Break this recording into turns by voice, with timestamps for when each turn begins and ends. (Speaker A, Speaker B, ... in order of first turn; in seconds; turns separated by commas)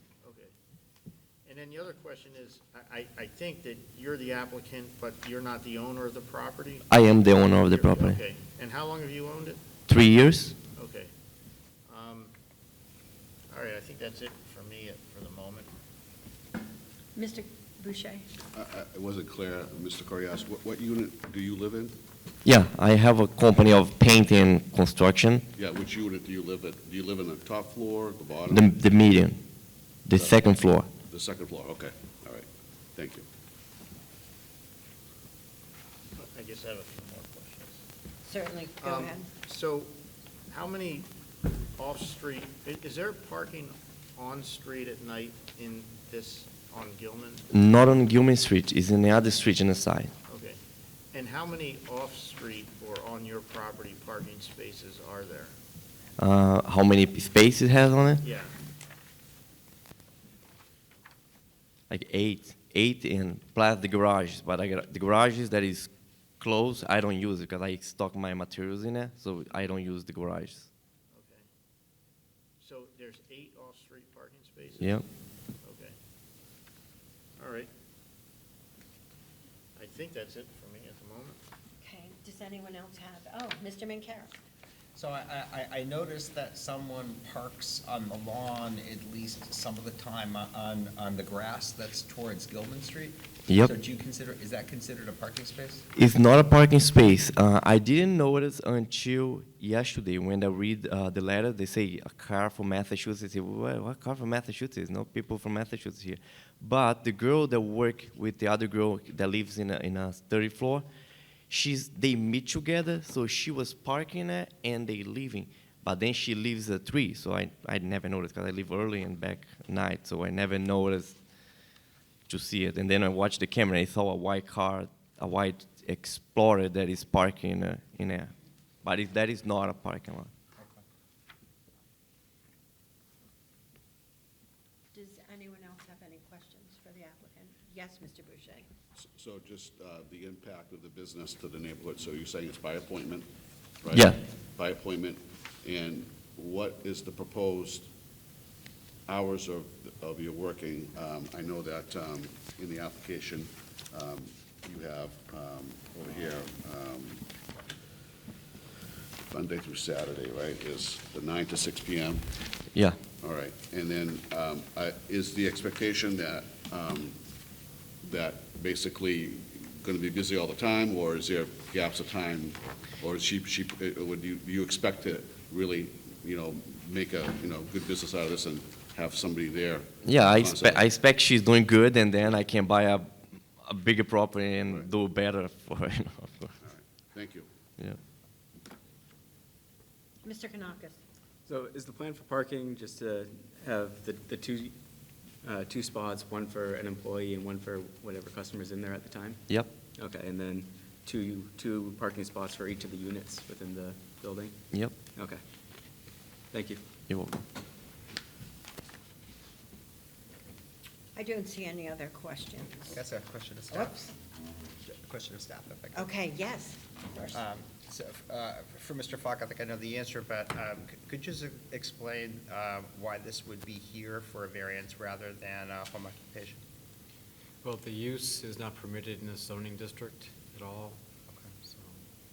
Speaker A: 0.2-0.5, Speaker A: 1.4-6.8, Speaker B: 6.9-8.2, Speaker A: 7.4-9.6, Speaker B: 9.9-10.5, Speaker A: 10.7-11.1, Speaker A: 11.9-12.3, Speaker A: 13.5-15.7, Speaker C: 17.1-18.2, Speaker D: 18.5-22.0, Speaker B: 22.4-25.4, Speaker D: 25.6-28.7, Speaker B: 28.5-29.4, Speaker B: 30.1-30.9, Speaker D: 30.1-30.4, Speaker D: 31.1-33.2, Speaker A: 36.1-37.8, Speaker C: 38.2-39.3, Speaker A: 38.8-39.9, Speaker A: 40.5-41.1, Speaker A: 41.7-47.5, Speaker B: 47.5-50.1, Speaker A: 50.3-50.6, Speaker A: 51.1-55.5, Speaker B: 56.2-58.2, Speaker A: 58.2-58.5, Speaker B: 61.9-70.7, Speaker A: 71.1-71.5, Speaker A: 72.6-75.0, Speaker A: 75.6-76.0, Speaker A: 77.4-77.7, Speaker A: 79.8-81.4, Speaker C: 81.8-84.3, Speaker E: 84.9-95.9, Speaker B: 93.5-93.7, Speaker B: 96.0-110.8, Speaker B: 111.5-121.2, Speaker B: 122.3-128.3, Speaker B: 128.8-130.3, Speaker C: 134.9-138.7, Speaker D: 139.0-143.3, Speaker D: 143.8-147.9, Speaker B: 143.9-144.2, Speaker D: 149.1-157.2, Speaker D: 159.3-162.2, Speaker D: 163.2-167.2, Speaker D: 168.0-180.8, Speaker B: 180.0-183.1, Speaker B: 183.6-186.6, Speaker D: 186.6-187.5, Speaker C: 190.2-191.0, Speaker F: 191.4-194.8, Speaker F: 195.4-205.4, Speaker F: 206.5-206.8, Speaker B: 207.1-207.3, Speaker C: 211.1-213.0, Speaker E: 212.8-214.1, Speaker C: 213.7-214.1, Speaker E: 214.8-216.1, Speaker C: 215.9-217.4, Speaker E: 217.3-226.6, Speaker G: 227.6-231.0, Speaker G: 231.6-231.9